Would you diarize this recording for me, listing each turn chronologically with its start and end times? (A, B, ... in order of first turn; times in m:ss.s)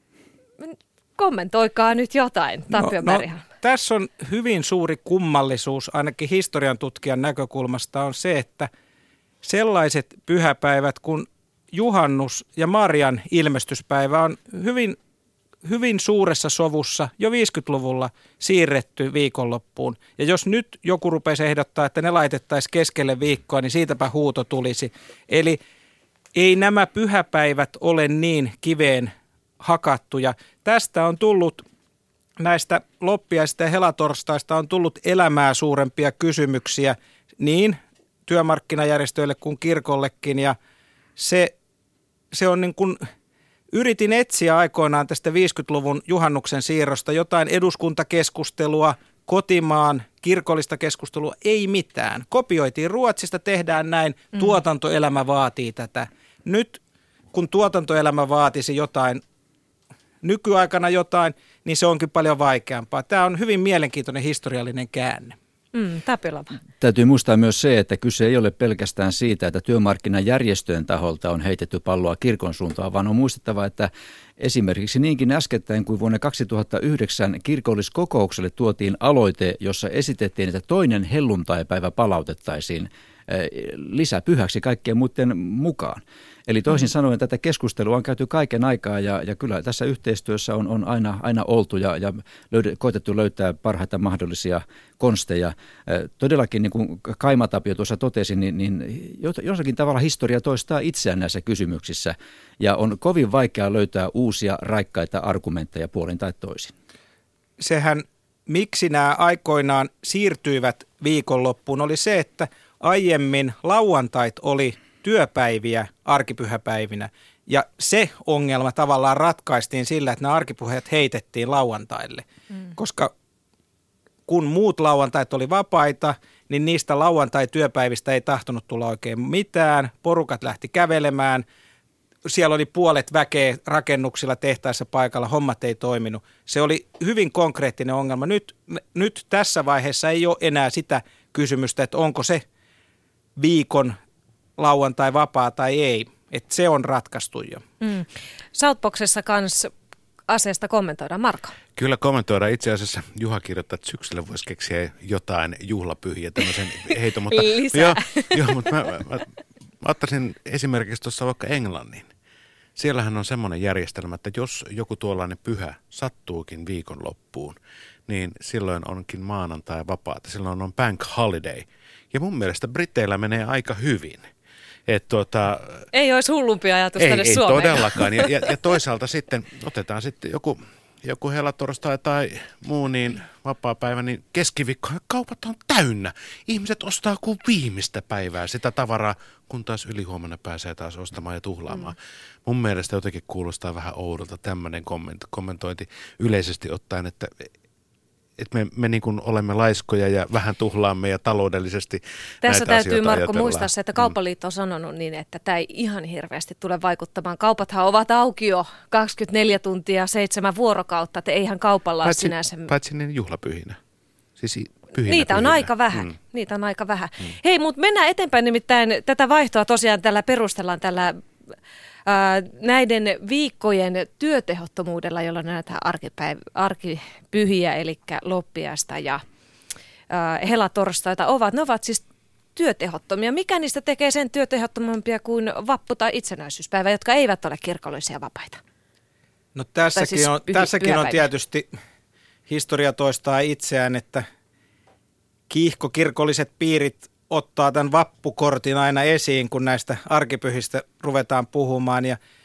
0:00.6-0:03.4 A
0:02.7-0:08.7 B
0:09.4-0:15.0 B
0:15.6-0:25.6 B
0:26.4-0:31.6 B
0:32.4-0:40.6 B
0:41.2-0:41.5 B
0:42.3-0:43.0 B
0:43.7-0:56.8 B
0:57.3-0:59.2 B
1:00.2-1:05.4 B
1:05.7-1:06.6 A
1:06.8-1:46.7 C
1:47.6-2:02.2 B
2:02.8-2:03.1 B
2:04.3-2:11.4 B
2:12.2-2:22.4 B
2:23.4-2:24.0 B
2:24.6-2:27.6 B
2:27.8-2:29.7 A
2:30.3-2:31.6 A
2:31.8-2:39.3 D
2:37.3-2:38.6 A
2:39.8-2:42.1 D
2:42.8-2:54.3 D
2:54.9-2:55.9 D
2:55.9-2:58.3 A
2:57.0-3:17.5 D
3:18.4-3:24.1 D
3:22.4-3:32.7 A
3:32.0-3:33.8 D
3:34.4-3:36.1 D
3:35.1-3:41.2 A
3:42.1-3:49.2 A
3:50.1-3:58.6 A
3:59.6-4:01.7 B
4:00.0-4:01.2 A
4:02.5-4:04.2 B
4:05.5-4:12.2 B